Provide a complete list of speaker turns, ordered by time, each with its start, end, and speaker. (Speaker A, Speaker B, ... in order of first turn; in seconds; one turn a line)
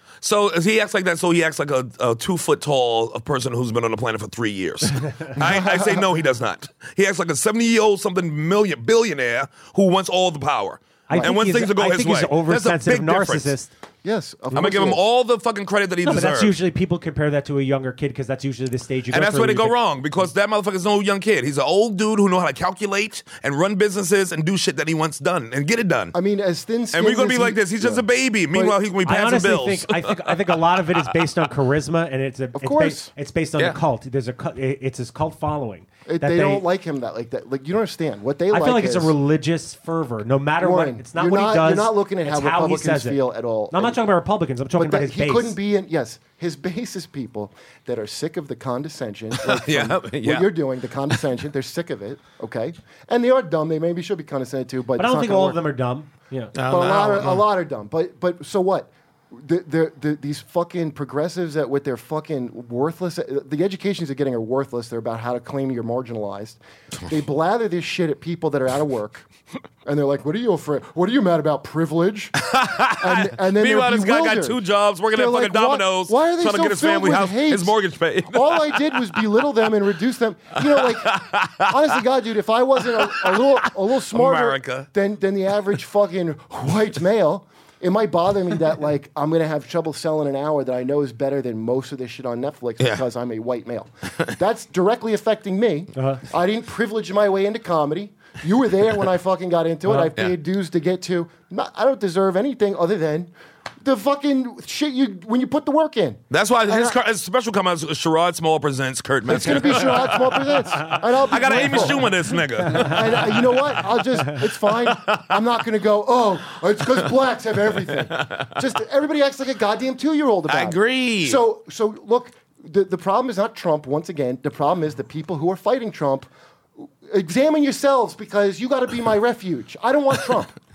Speaker A: 0.2-13.5
Speaker B: 5.4-6.1
Speaker C: 11.1-13.7
Speaker B: 11.1-11.6
Speaker B: 14.0-15.0
Speaker A: 14.5-16.6
Speaker C: 16.0-19.8
Speaker A: 19.1-26.1
Speaker B: 26.1-28.8
Speaker A: 26.9-31.0
Speaker C: 29.1-36.6
Speaker B: 32.5-33.1
Speaker B: 36.1-39.1
Speaker C: 38.5-45.6
Speaker B: 40.6-44.0
Speaker B: 44.8-55.6
Speaker A: 49.4-50.5
Speaker C: 55.0-56.5
Speaker A: 56.5-57.5
Speaker B: 56.6-69.3
Speaker B: 69.8-107.0
Speaker A: 72.4-79.2
Speaker A: 80.8-81.7
Speaker A: 83.0-83.4
Speaker A: 84.1-84.9
Speaker C: 96.0-96.2
Speaker C: 99.9-100.1
Speaker A: 106.3-113.4
Speaker B: 109.2-112.1
Speaker C: 111.5-112.0
Speaker B: 112.6-126.3
Speaker A: 114.9-115.3
Speaker A: 118.0-118.5
Speaker A: 120.5-121.4
Speaker B: 127.0-130.6